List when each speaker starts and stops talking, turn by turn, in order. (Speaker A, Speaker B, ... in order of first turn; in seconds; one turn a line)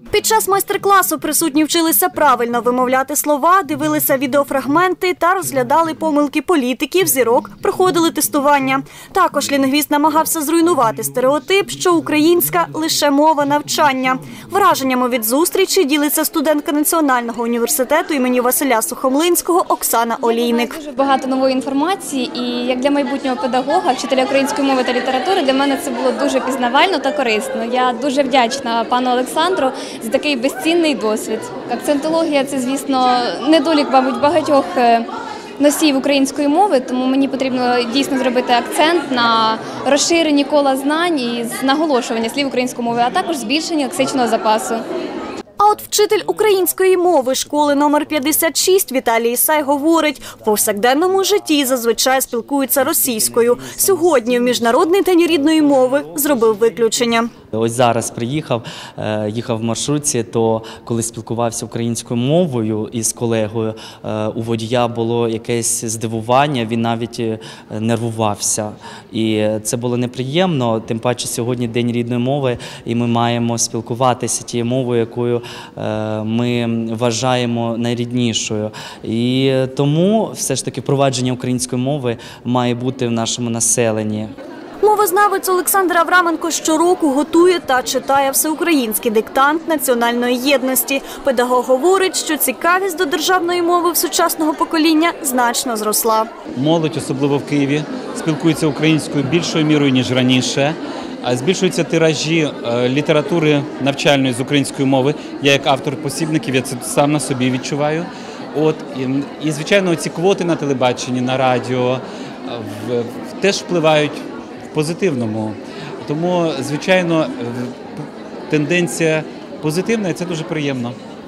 Speaker A: 0.1-20.8
Speaker B: 20.2-35.1
Speaker B: 35.6-44.8
Speaker A: 45.6-57.3
Speaker C: 52.5-84.3
Speaker A: 84.8-96.3
Speaker D: 96.5-121.0